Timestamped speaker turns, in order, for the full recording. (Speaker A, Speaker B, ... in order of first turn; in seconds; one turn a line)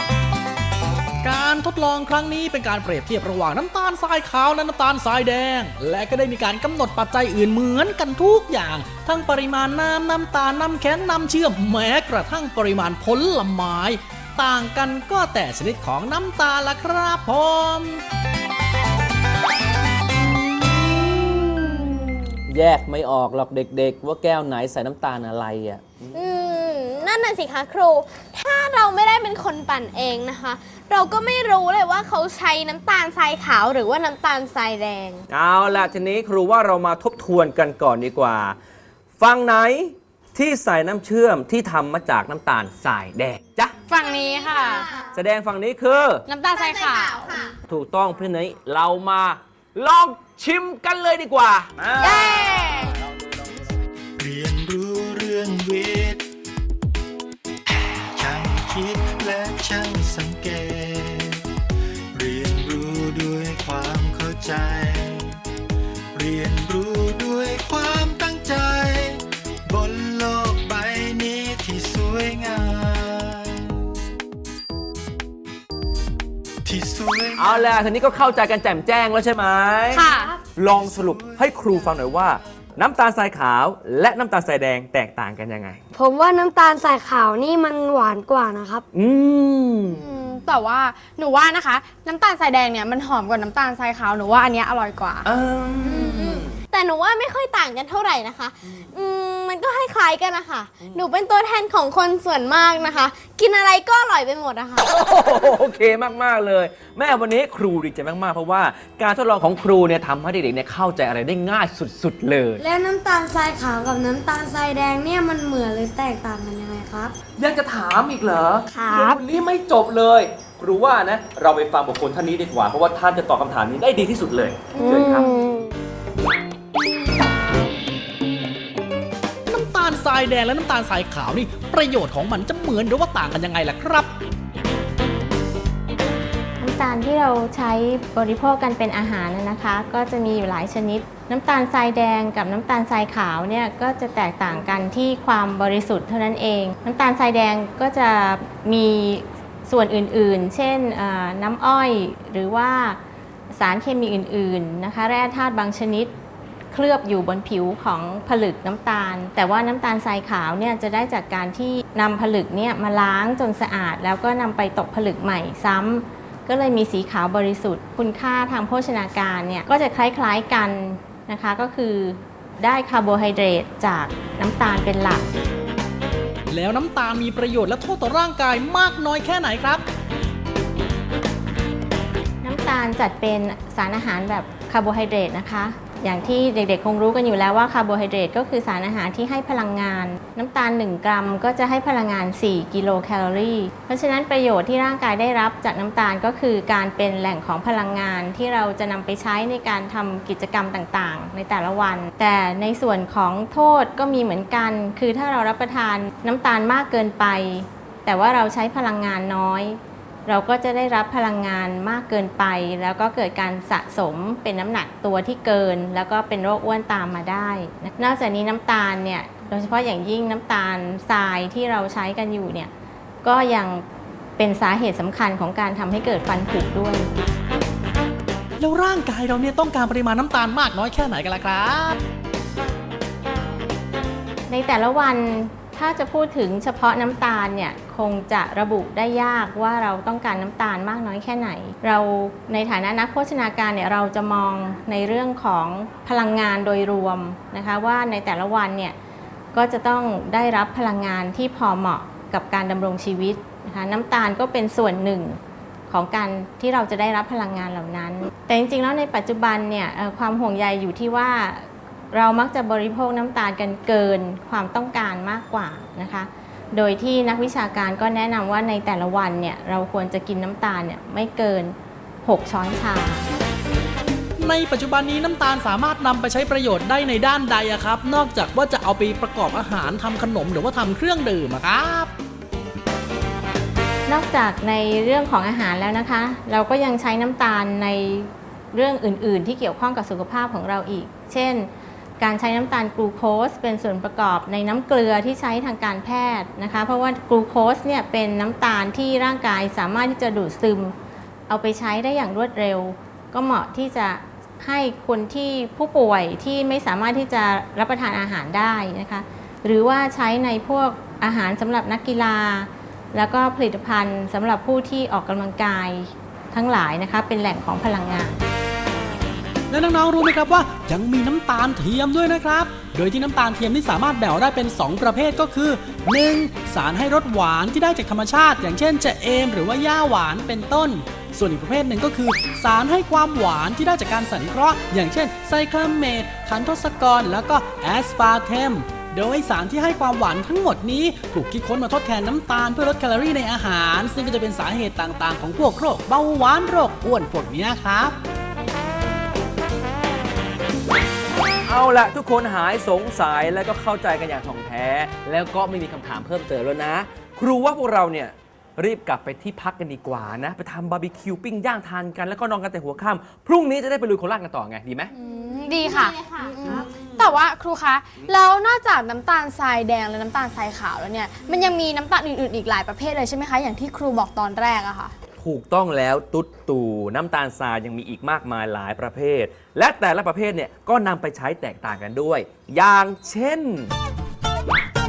Speaker A: 1.2-18.0
Speaker B: 22.5-26.1
Speaker C: 26.1-35.2
Speaker B: 35.3-38.5
Speaker B: 39.2-43.7
Speaker D: 43.9-44.9
Speaker C: 43.9-45.1
Speaker B: 45.1-46.2
Speaker D: 46.3-47.3
Speaker C: 46.5-47.5
Speaker B: 47.7-53.5
Speaker D: 52.0-53.0
Speaker C: 52.0-52.5
Speaker E: 54.2-56.2
Speaker E: 57.7-61.5
Speaker E: 62.1-65.4
Speaker E: 66.1-73.9
Speaker E: 76.6-77.8
Speaker B: 77.4-85.8
Speaker D: 79.9-80.4
Speaker E: 80.7-81.5
Speaker F: 85.9-88.8
Speaker B: 88.9-90.1
Speaker D: 89.9-95.3
Speaker B: 95.2-96.5
Speaker C: 95.8-104.9
Speaker B: 104.8-112.6
Speaker F: 112.6-117.1
Speaker B: 117.4-125.3
Speaker F: 118.7-119.2
Speaker F: 124.7-125.7
Speaker A: 129.5-134.1
Speaker G: 136.6-153.0
Speaker G: 153.5-156.1
Speaker G: 156.7-175.3
Speaker A: 176.5-179.8
Speaker G: 182.4-222.7
Speaker G: 223.2-223.8
Speaker G: 224.4-227.1
Speaker A: 228.6-232.0
Speaker G: 234.5-248.9
Speaker G: 249.5-255.4
Speaker G: 255.9-273.3
Speaker A: 274.4-282.1
Speaker G: 284.1-300.9
Speaker G: 301.5-318.4
Speaker A: 319.7-348.2
Speaker B: 351.6-365.1
Speaker D: 365.2-375.1
Speaker C: 365.2-366.5
Speaker B: 375.4-383.9